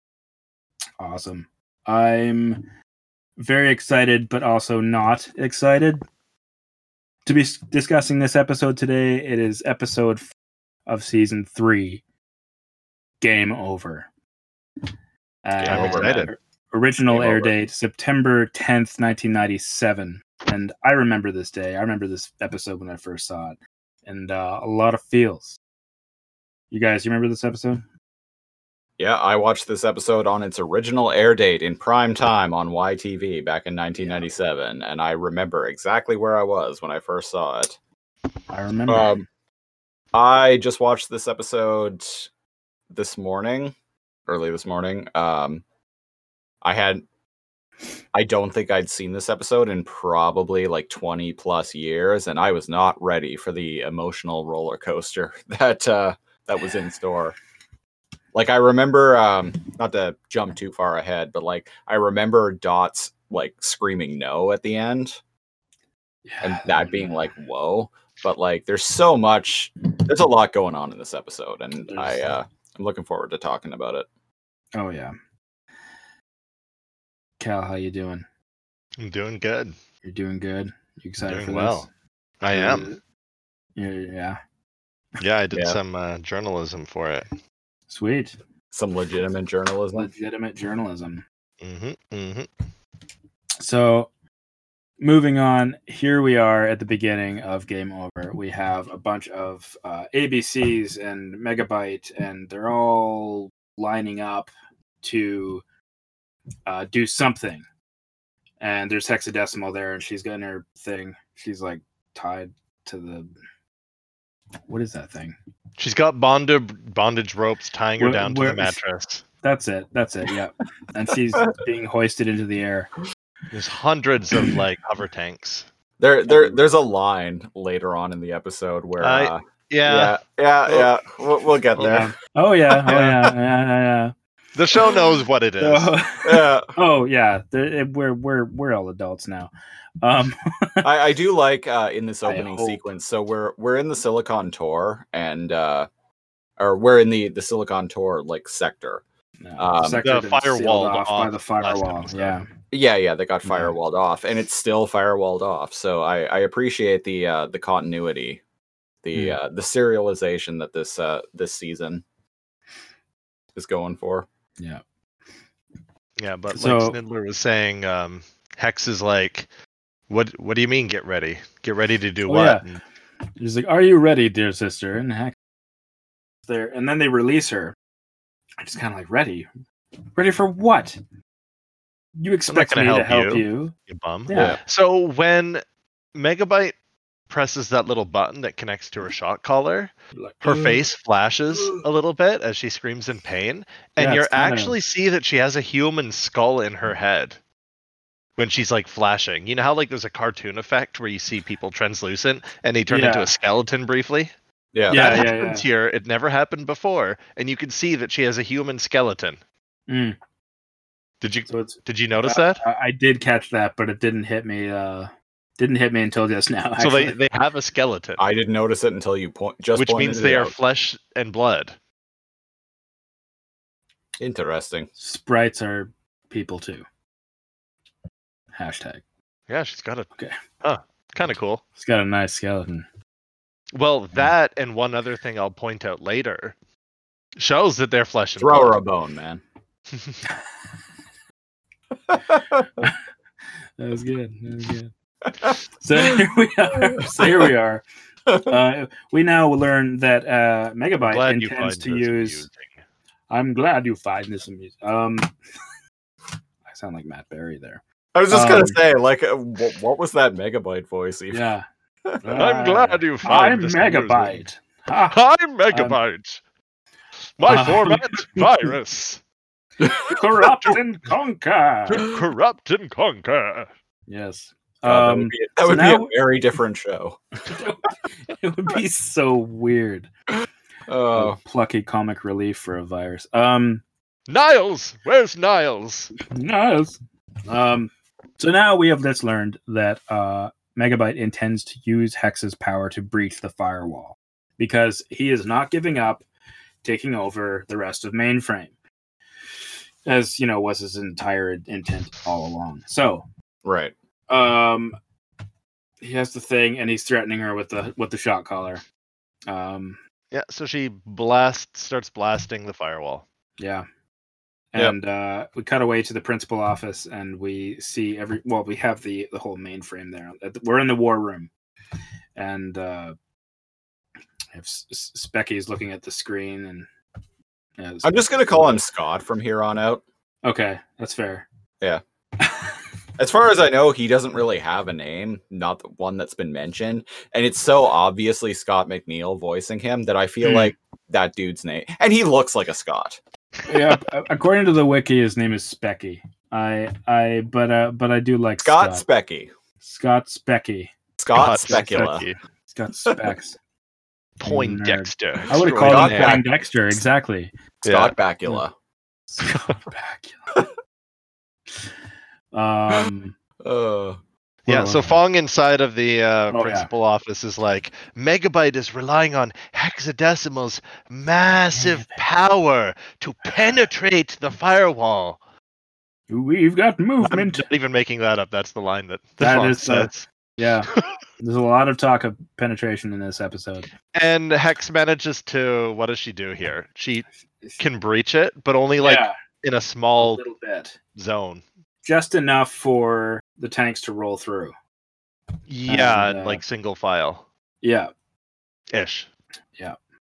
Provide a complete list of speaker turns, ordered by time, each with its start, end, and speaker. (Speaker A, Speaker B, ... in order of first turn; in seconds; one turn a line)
Speaker A: 1.0-2.7
Speaker A: 3.4-6.0
Speaker A: 7.2-10.3
Speaker A: 10.9-12.0
Speaker A: 13.2-14.1
Speaker A: 15.4-25.6
Speaker B: 15.6-16.3
Speaker C: 15.7-16.2
Speaker C: 17.1-17.5
Speaker A: 26.7-27.8
Speaker C: 29.0-37.8
Speaker A: 34.0-34.3
Speaker A: 38.5-39.2
Speaker C: 38.9-39.2
Speaker C: 40.1-42.3
Speaker C: 42.9-43.7
Speaker C: 44.3-45.6
Speaker C: 46.6-47.0
Speaker C: 48.1-57.3
Speaker C: 58.3-65.2
Speaker A: 66.2-67.3
Speaker C: 66.4-74.1
Speaker A: 71.9-72.3
Speaker A: 74.7-75.1
Speaker A: 77.4-78.2
Speaker B: 79.0-79.8
Speaker A: 80.0-81.9
Speaker B: 81.3-81.8
Speaker B: 82.4-83.0
Speaker A: 82.5-83.0
Speaker A: 83.8-84.4
Speaker B: 85.2-87.3
Speaker C: 85.5-85.8
Speaker A: 87.9-88.4
Speaker C: 88.7-90.1
Speaker A: 89.9-91.2
Speaker B: 91.6-92.5
Speaker A: 93.6-94.1
Speaker A: 95.0-104.5
Speaker A: 105.0-105.6
Speaker A: 106.7-107.6
Speaker A: 108.6-113.3
Speaker A: 114.7-115.3
Speaker B: 115.8-119.2
Speaker A: 118.0-118.8
Speaker A: 119.4-122.9
Speaker B: 123.5-125.7
Speaker C: 126.0-132.1
Speaker A: 126.3-126.6
Speaker B: 129.0-130.9
Speaker B: 131.7-132.0
Speaker A: 131.8-134.1
Speaker B: 132.9-133.2
Speaker B: 134.5-135.9
Speaker A: 135.6-139.5
Speaker C: 136.2-136.7
Speaker A: 140.0-140.9
Speaker C: 140.8-145.9
Speaker A: 142.2-142.8
Speaker C: 146.6-149.0
Speaker A: 149.4-152.4
Speaker C: 149.6-150.0
Speaker B: 150.0-152.4
Speaker C: 152.7-158.4
Speaker A: 153.4-153.7
Speaker C: 159.0-162.0
Speaker A: 159.1-159.4
Speaker C: 163.5-164.3
Speaker B: 166.2-169.5
Speaker A: 166.5-167.0
Speaker B: 170.1-172.8
Speaker A: 172.2-172.6
Speaker A: 173.4-175.3
Speaker A: 176.5-177.7
Speaker A: 178.6-179.5
Speaker A: 180.1-181.0
Speaker A: 182.2-183.7
Speaker B: 182.4-185.6
Speaker A: 184.3-184.6
Speaker C: 184.3-184.6
Speaker B: 186.1-186.7
Speaker B: 187.3-197.4
Speaker A: 190.1-190.8
Speaker A: 194.0-194.7
Speaker B: 198.4-204.3
Speaker A: 202.9-203.3
Speaker C: 204.7-205.3
Speaker A: 204.9-205.7
Speaker B: 204.9-209.4
Speaker A: 209.9-210.2
Speaker B: 211.2-212.6
Speaker A: 211.5-217.2
Speaker B: 216.8-218.2
Speaker C: 218.2-220.5
Speaker B: 219.7-221.8
Speaker C: 224.2-224.9
Speaker A: 225.0-226.8
Speaker A: 228.5-229.0
Speaker B: 229.5-230.1
Speaker B: 230.6-231.6
Speaker A: 231.8-232.8
Speaker B: 233.7-236.5
Speaker B: 237.4-238.8
Speaker C: 238.4-239.4
Speaker B: 239.9-240.2
Speaker C: 242.1-242.8
Speaker A: 243.8-244.9
Speaker C: 245.4-246.1
Speaker A: 245.8-247.8
Speaker C: 246.8-247.5
Speaker C: 248.3-248.5
Speaker A: 248.4-252.4
Speaker B: 251.1-252.8
Speaker A: 253.3-255.3
Speaker A: 256.6-258.8
Speaker C: 258.1-261.4
Speaker A: 261.3-261.6
Speaker C: 262.0-262.4
Speaker A: 262.2-266.0
Speaker B: 262.3-264.4
Speaker B: 265.0-266.4
Speaker B: 267.4-269.2
Speaker A: 267.4-268.7
Speaker A: 269.8-272.1
Speaker C: 269.9-270.1
Speaker B: 271.9-273.7
Speaker A: 274.1-276.1
Speaker C: 274.8-277.2
Speaker A: 277.4-280.1
Speaker C: 280.9-281.4
Speaker A: 281.1-283.8
Speaker B: 284.3-286.1
Speaker A: 286.2-296.2
Speaker A: 296.8-298.7
Speaker A: 300.0-303.2
Speaker C: 303.6-303.9
Speaker A: 304.3-304.9
Speaker A: 306.0-308.8
Speaker A: 309.5-310.0
Speaker B: 310.3-313.2
Speaker A: 313.6-313.9
Speaker A: 314.7-321.5
Speaker A: 322.4-323.1
Speaker A: 324.5-326.9
Speaker A: 327.8-328.8
Speaker C: 328.0-330.0
Speaker A: 330.4-331.5
Speaker A: 332.4-332.8
Speaker C: 333.2-343.2
Speaker A: 340.4-340.7
Speaker A: 343.7-349.0
Speaker C: 348.6-349.5
Speaker A: 349.8-350.9
Speaker C: 351.2-352.2
Speaker B: 351.3-352.4
Speaker A: 351.6-353.6
Speaker C: 353.1-353.3
Speaker B: 354.4-356.4
Speaker A: 354.4-357.5
Speaker C: 355.8-356.4
Speaker B: 357.8-358.1
Speaker C: 357.9-358.7
Speaker A: 359.3-360.5
Speaker B: 359.4-359.8
Speaker A: 362.5-363.3
Speaker C: 363.6-364.2
Speaker B: 364.6-375.4
Speaker A: 364.7-365.2
Speaker A: 366.5-366.9
Speaker A: 371.7-372.2
Speaker A: 376.3-377.6
Speaker B: 377.2-380.2
Speaker A: 379.4-383.9
Speaker B: 384.1-387.2
Speaker B: 387.8-390.4
Speaker A: 389.0-389.3
Speaker A: 390.2-391.0
Speaker B: 391.1-391.6
Speaker A: 392.0-394.7
Speaker B: 395.7-397.4
Speaker A: 395.9-396.6
Speaker A: 397.8-398.1
Speaker B: 398.9-399.3